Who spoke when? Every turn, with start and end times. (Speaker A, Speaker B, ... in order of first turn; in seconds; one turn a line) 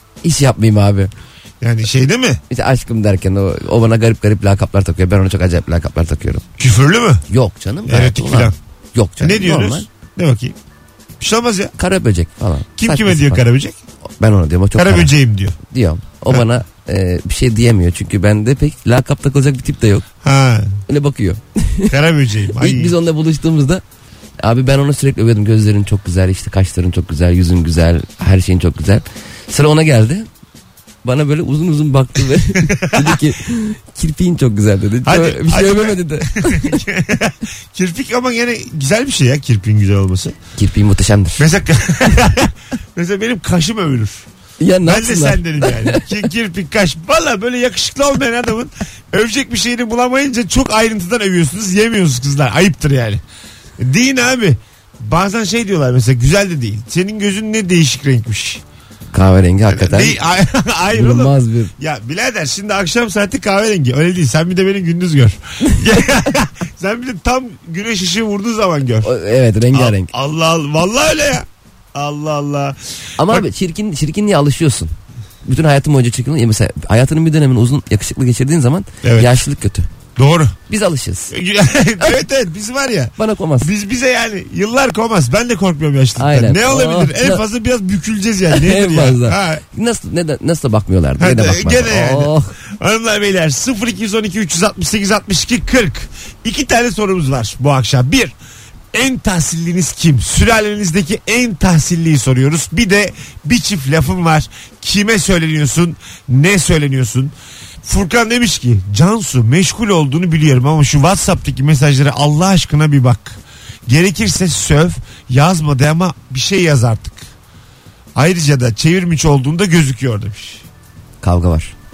Speaker A: 0.2-1.1
Speaker B: 1.6-2.4
Speaker A: 2.5-6.4
Speaker B: 6.6-7.2
Speaker A: 7.3-9.8
Speaker B: 7.8-8.5
Speaker B: 9.2-10.6
Speaker B: 11.2-11.7
Speaker A: 11.8-13.4
Speaker B: 12.8-13.8
Speaker A: 14.2-20.1
Speaker B: 14.7-15.6
Speaker B: 20.2-20.8
Speaker A: 20.9-21.9
Speaker B: 21.9-22.9
Speaker A: 22.6-23.8
Speaker A: 24.4-30.3
Speaker A: 31.0-36.8
Speaker B: 32.6-33.2
Speaker B: 35.0-40.4
Speaker A: 40.6-41.4
Speaker B: 41.4-44.2
Speaker A: 44.6-46.0
Speaker B: 44.8-53.2
Speaker B: 53.8-58.6
Speaker A: 59.1-60.2
Speaker B: 59.7-69.1
Speaker A: 60.9-61.7
Speaker A: 69.0-70.1
Speaker B: 69.7-73.4
Speaker A: 73.2-74.9
Speaker A: 75.4-79.9
Speaker B: 79.0-79.3
Speaker B: 80.2-80.5
Speaker A: 80.7-81.3
Speaker B: 81.3-89.6
Speaker A: 83.2-83.7
Speaker A: 86.2-87.4
Speaker A: 88.5-92.5
Speaker B: 91.2-98.3
Speaker B: 98.9-117.2
Speaker B: 118.2-120.6
Speaker A: 121.2-121.7